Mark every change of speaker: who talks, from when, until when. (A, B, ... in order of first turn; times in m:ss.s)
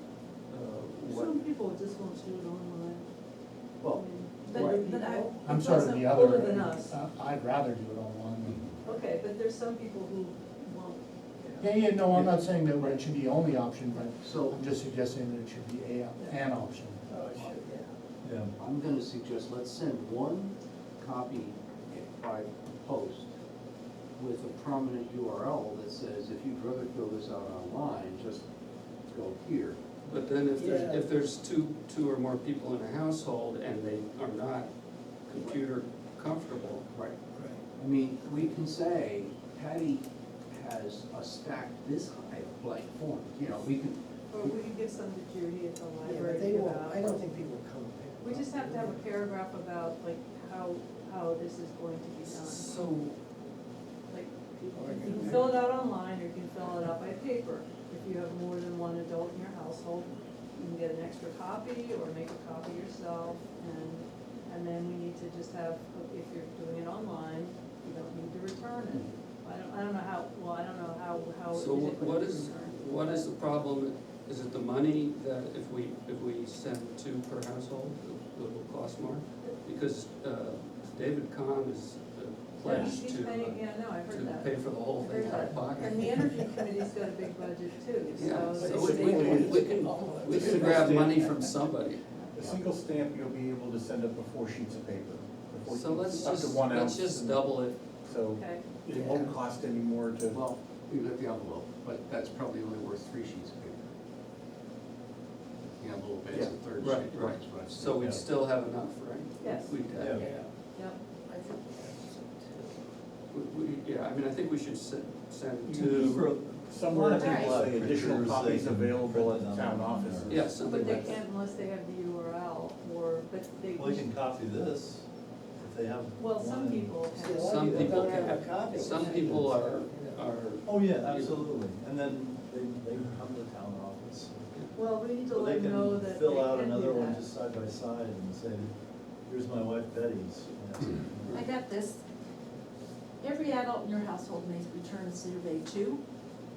0:00.5-0:01.3 A
0:01.0-0:03.1 B
0:03.8-0:04.9 C
0:03.8-0:07.0 B
0:04.5-0:05.8 D
0:05.4-0:08.6 E
0:08.4-0:08.9 C
0:08.8-0:11.0 B
0:11.6-0:17.0 E
0:12.1-0:13.0 C
0:14.2-0:14.6 C
0:17.1-0:17.9 F
0:17.3-0:17.6 C
0:18.2-0:18.5 G
0:18.6-0:23.3 C
0:24.2-0:28.4 C
0:29.1-0:29.8 C
0:30.0-0:34.7 A
0:30.5-0:31.1 F
0:35.2-0:36.8 A
0:36.9-0:37.2 C
0:37.3-0:37.6 F
0:37.8-0:44.0 C
0:44.3-0:47.2 B
0:46.0-0:49.0 F
0:48.2-0:52.7 B
0:52.2-0:53.2 A
0:54.1-1:13.3 B
0:54.7-0:55.7 F
0:55.0-0:55.3 A
1:11.5-1:26.2 A
1:22.6-1:29.4 B
1:26.2-1:26.6 F
1:28.1-1:32.0 A
1:28.6-1:31.4 F
1:28.8-1:29.5 H
1:30.3-1:31.2 H
1:32.3-1:37.4 H
1:33.8-1:37.3 E
1:35.7-1:37.9 A
1:38.1-1:40.4 H
1:38.3-1:38.7 B
1:38.9-1:40.2 E
1:38.9-1:39.4 F
1:40.3-1:43.9 C
1:45.8-1:48.2 C
1:46.3-1:50.4 A
1:49.4-1:49.8 B
1:49.9-1:50.2 G
1:50.1-1:50.5 F
1:51.3-1:52.8 F
1:53.3-1:56.2 A
1:55.7-2:00.4 E
1:55.7-2:00.5 G
1:56.9-1:57.7 H
1:57.2-1:57.5 D
2:00.3-2:01.2 A
2:00.6-2:04.1 B
2:03.7-2:07.0 G
2:06.2-2:07.9 B
2:07.1-2:10.3 F
2:07.3-2:11.5 A
2:07.8-2:08.2 G
2:10.6-2:14.5 G
2:14.7-2:17.3 B
2:15.2-2:18.7 G
2:19.3-2:21.3 G
2:21.3-2:22.0 D
2:23.2-2:26.0 D